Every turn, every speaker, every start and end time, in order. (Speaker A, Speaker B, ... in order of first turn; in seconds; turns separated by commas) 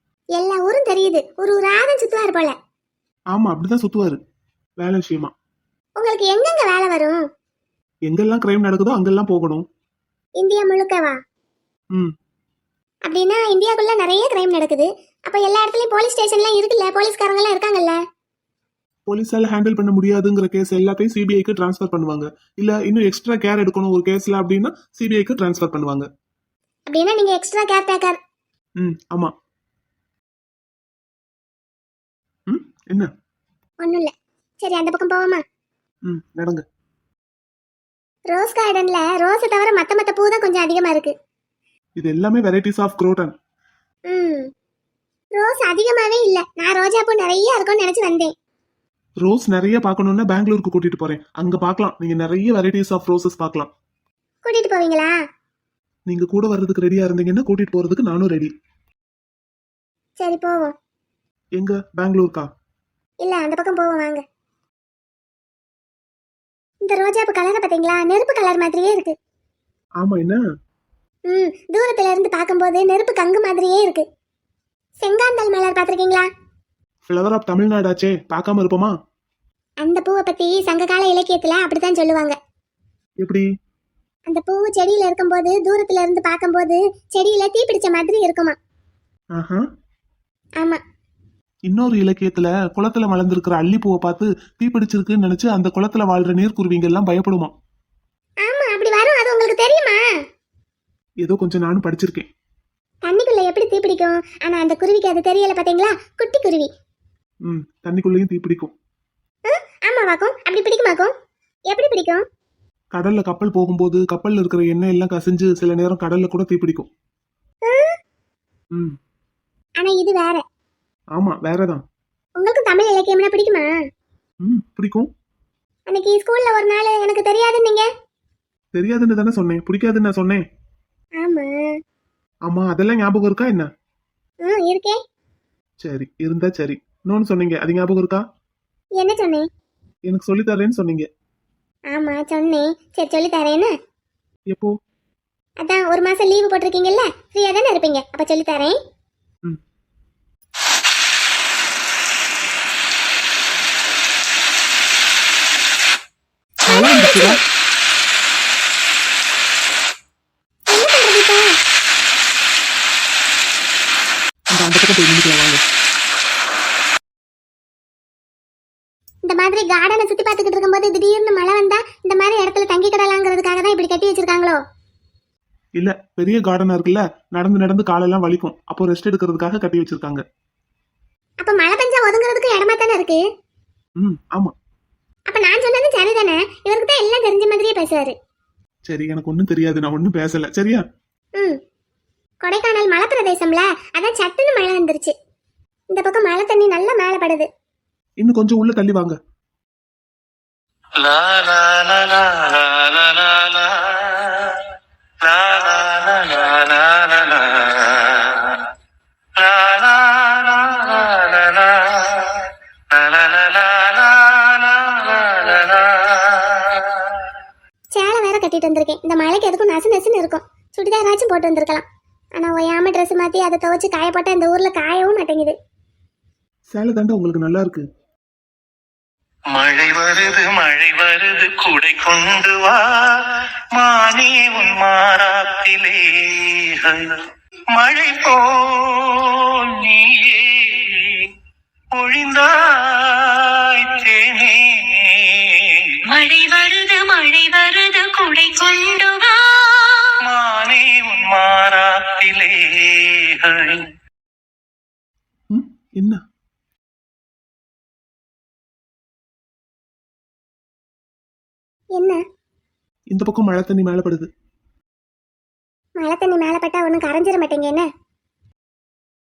Speaker A: 0.4-2.5, Speaker B: 3.3-4.2, Speaker B: 4.8-5.3, Speaker A: 6.0-7.2, Speaker B: 8.1-9.7, Speaker A: 10.4-11.2, Speaker A: 13.1-18.0, Speaker B: 19.1-26.1, Speaker A: 26.9-28.2, Speaker B: 28.8-29.3, Speaker B: 32.5-33.1, Speaker A: 33.8-35.4, Speaker B: 36.1-36.6, Speaker A: 38.3-41.1, Speaker B: 42.0-43.3, Speaker A: 44.1-44.5, Speaker A: 45.4-48.3, Speaker B: 49.2-53.7, Speaker A: 54.4-55.1, Speaker B: 56.1-58.5, Speaker A: 60.2-60.7, Speaker B: 61.6-62.5, Speaker A: 63.2-64.2, Speaker A: 66.8-69.1, Speaker B: 70.0-70.4, Speaker A: 71.3-74.0, Speaker A: 75.0-76.3, Speaker B: 77.1-78.9, Speaker A: 79.8-82.3, Speaker A: 84.3-88.5, Speaker B: 89.3-89.6, Speaker B: 91.7-97.5, Speaker A: 98.4-100.0, Speaker B: 101.2-102.3, Speaker A: 103.0-106.7, Speaker B: 107.4-108.7, Speaker A: 109.5-111.1, Speaker A: 111.7-112.2, Speaker B: 112.9-116.9, Speaker A: 117.7-118.0, Speaker A: 119.8-120.4, Speaker B: 121.2-121.8, Speaker A: 122.4-123.7, Speaker B: 124.4-125.1, Speaker A: 125.9-127.9, Speaker B: 128.7-130.4, Speaker A: 131.2-131.7, Speaker B: 132.5-133.7, Speaker A: 134.4-135.0, Speaker B: 135.8-138.2, Speaker A: 139.0-139.4, Speaker B: 140.1-141.1, Speaker A: 141.9-143.7, Speaker A: 145.6-148.8, Speaker A: 156.7-157.4, Speaker B: 156.7-157.4, Speaker A: 160.7-161.4, Speaker B: 164.5-165.6, Speaker A: 169.2-174.6, Speaker B: 175.8-180.2, Speaker A: 181.4-183.2, Speaker B: 184.0-184.5, Speaker A: 185.3-188.1, Speaker B: 188.9-190.8, Speaker A: 192.4-195.1, Speaker A: 195.9-197.5, Speaker B: 198.2-199.2, Speaker C: 201.0-204.7, Speaker C: 205.2-208.7, Speaker C: 209.3-217.2, Speaker A: 217.9-225.5, Speaker B: 226.7-227.8, Speaker C: 229.5-237.2, Speaker C: 237.7-241.3, Speaker C: 241.9-246.2, Speaker D: 246.2-250.1, Speaker C: 250.2-253.8, Speaker B: 255.5-256.2, Speaker B: 263.1-264.3, Speaker A: 266.0-267.8